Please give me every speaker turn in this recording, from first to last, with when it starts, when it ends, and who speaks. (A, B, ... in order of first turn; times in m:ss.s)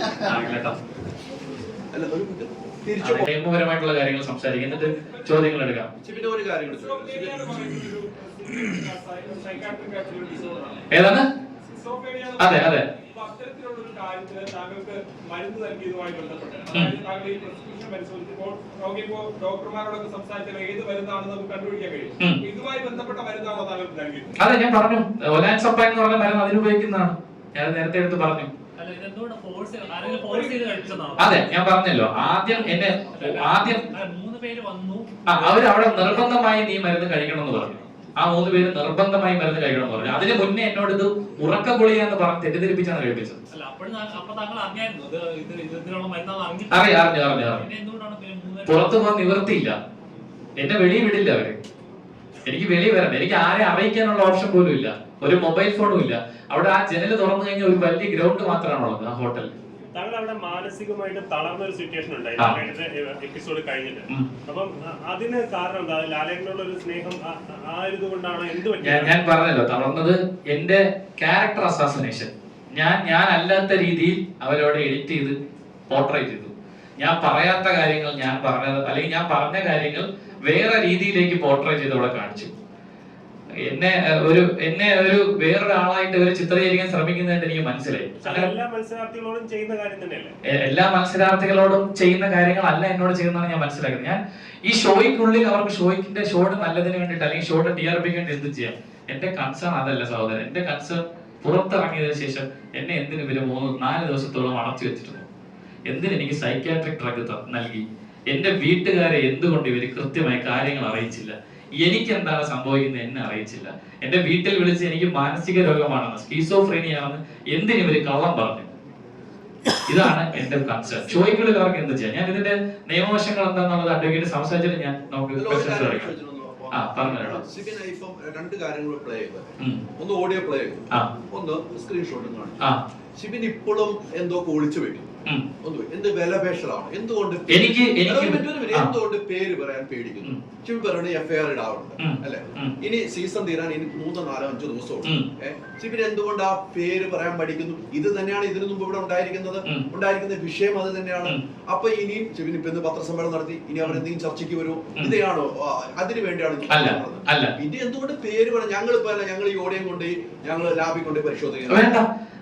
0:00.2-0:00.8 A
0:01.9-0:03.3 B
0:03.0-0:05.9 A
0:04.7-0:05.5 C
0:06.0-0:07.5 B
0:06.7-0:10.8 C
0:10.9-0:11.2 A
0:11.7-0:24.3 C
0:12.4-0:12.8 A
0:24.4-0:28.5 A
0:28.8-0:31.4 D
0:30.0-0:31.1 C
0:31.2-0:33.8 A
0:33.1-0:35.0 D
0:35.3-0:43.4 A
0:43.5-0:49.0 D
0:46.7-0:47.6 A
0:48.7-0:49.7 A
0:50.6-0:51.6 A
0:52.4-0:59.5 A
0:59.9-1:09.1 E
1:08.8-1:15.3 A
1:15.9-1:22.5 A
1:23.7-1:28.5 A
1:28.2-1:30.3 E
1:30.5-1:45.2 A
1:45.9-1:58.7 A
1:59.8-2:06.1 A
2:05.4-2:12.6 B
2:06.7-2:07.4 A
2:13.2-2:15.1 B
2:15.6-2:42.0 B
2:17.5-2:18.9 A
2:22.0-2:22.7 A
2:36.7-2:37.5 A
2:41.7-2:42.1 A